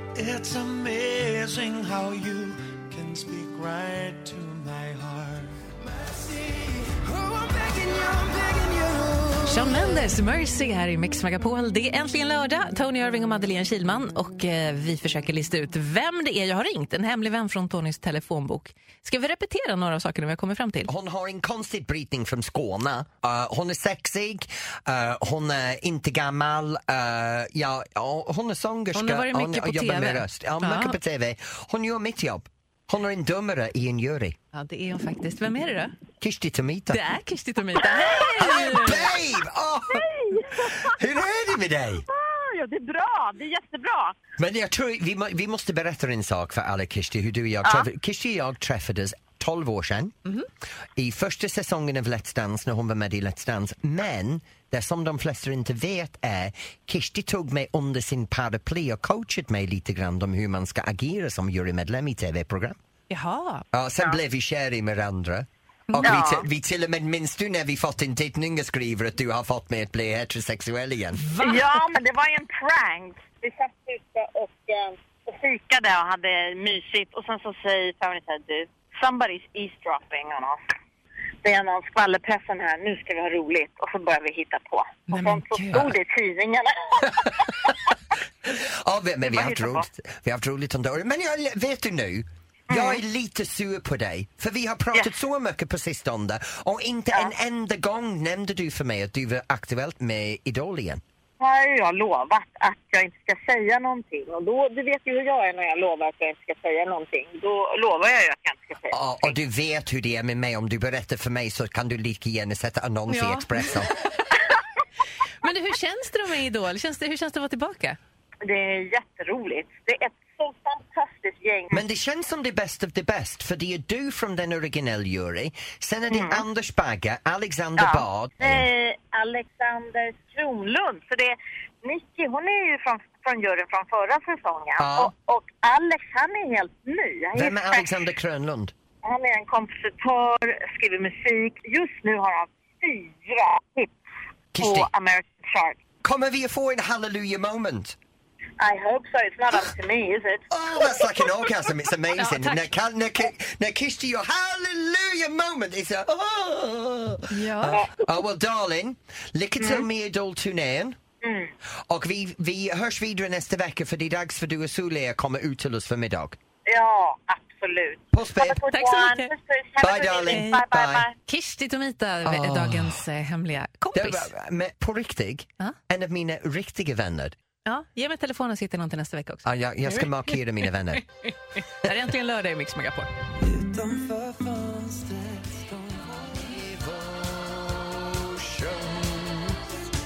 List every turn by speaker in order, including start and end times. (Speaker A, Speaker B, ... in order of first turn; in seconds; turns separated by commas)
Speaker A: 0.1-9.8, Speaker B: 9.4-20.9, Speaker C: 20.9-34.4, Speaker B: 28.9-31.0, Speaker B: 34.5-36.0, Speaker C: 36.2-37.0, Speaker B: 36.9-39.1, Speaker D: 37.8-38.4, Speaker C: 38.4-42.0, Speaker D: 39.9-41.0, Speaker D: 42.1-44.2, Speaker C: 44.4-50.1, Speaker D: 47.6-47.9, Speaker C: 51.0-62.8, Speaker B: 63.1-63.7, Speaker C: 63.7-71.2, Speaker B: 65.9-66.3, Speaker D: 66.0-66.5, Speaker B: 71.2-71.8, Speaker D: 71.4-80.6, Speaker D: 81.4-88.0, Speaker B: 85.1-85.9, Speaker C: 88.5-101.0, Speaker D: 89.2-89.9, Speaker D: 92.7-93.0, Speaker D: 101.4-109.3, Speaker C: 108.9-113.9, Speaker B: 113.1-114.4, Speaker B: 115.4-118.0, Speaker D: 118.4-121.8, Speaker C: 121.7-128.7, Speaker D: 126.1-126.5, Speaker D: 127.8-137.9, Speaker C: 134.8-135.1, Speaker C: 137.3-138.7, Speaker D: 139.1-143.9, Speaker C: 144.5-144.9, Speaker D: 144.6-145.8, Speaker C: 146.0-148.0, Speaker D: 148.6-151.5, Speaker C: 150.5-161.0, Speaker B: 152.1-152.7, Speaker B: 157.3-157.8, Speaker D: 159.6-159.9, Speaker D: 161.2-161.5, Speaker C: 161.9-166.4, Speaker D: 166.7-171.1, Speaker C: 168.1-168.6, Speaker B: 168.6-169.3, Speaker C: 169.8-171.1, Speaker B: 170.3-170.6, Speaker B: 171.2-174.3, Speaker C: 172.2-173.0, Speaker C: 173.9-177.3, Speaker B: 177.7-183.1, Speaker C: 179.4-181.1, Speaker C: 183.4-189.6